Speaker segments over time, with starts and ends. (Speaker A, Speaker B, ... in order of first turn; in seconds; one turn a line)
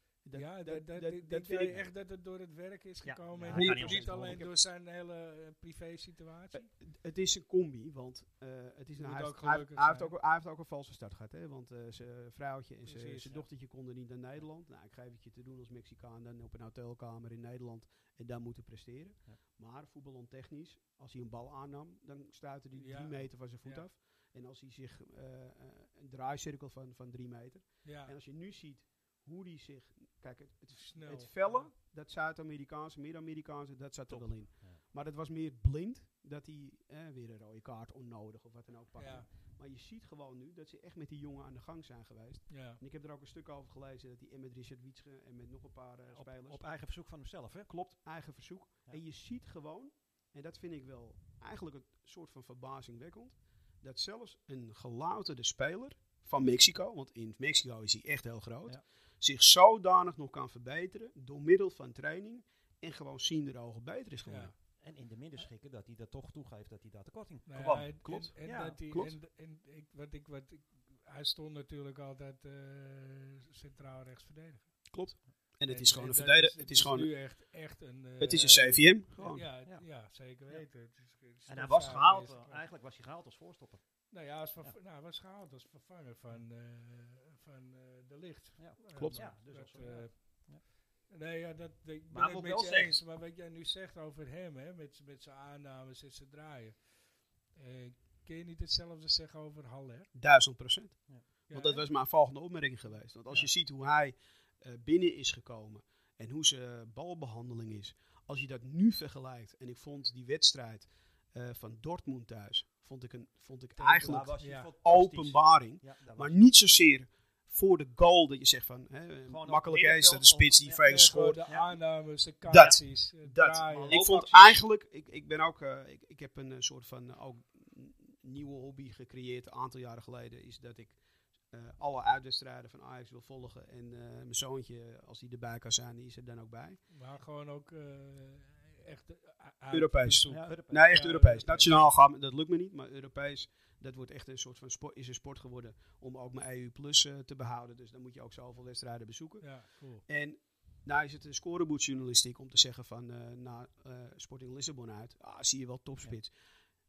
Speaker A: 0.2-1.8
Speaker B: 0.3-6.7
Speaker C: 3.0-4.4
Speaker A: 3.5-4.5
Speaker A: 6.5-46.6
Speaker B: 8.9-10.1
Speaker B: 12.8-13.4
Speaker B: 22.7-23.9
Speaker B: 27.8-28.1
Speaker B: 30.7-31.7
Speaker C: 34.1-34.8
Speaker B: 39.0-39.3
Speaker B: 42.5-42.8
Speaker C: 46.1-47.7
Speaker A: 47.7-64.5
Speaker B: 64.2-64.5
Speaker C: 64.8-68.8
Speaker B: 67.5-74.9
Speaker A: 67.6-69.2
Speaker A: 74.9-77.3
Speaker B: 75.7-82.7
Speaker A: 78.2-79.5
Speaker C: 79.6-80.9
Speaker C: 81.4-84.8
Speaker B: 84.1-100.1
Speaker C: 88.6-90.6
Speaker A: 88.9-89.3
Speaker C: 92.1-93.0
Speaker A: 100.1-121.5
Speaker B: 101.5-101.8
Speaker C: 113.8-116.4
Speaker B: 114.0-114.7
Speaker C: 119.3-120.8
Speaker B: 120.8-124.0
Speaker C: 121.5-121.7
Speaker A: 122.5-136.8
Speaker C: 122.5-122.8
Speaker C: 123.7-124.6
Speaker B: 136.9-141.8
Speaker A: 139.7-156.3
Speaker C: 140.3-141.2
Speaker B: 149.4-150.0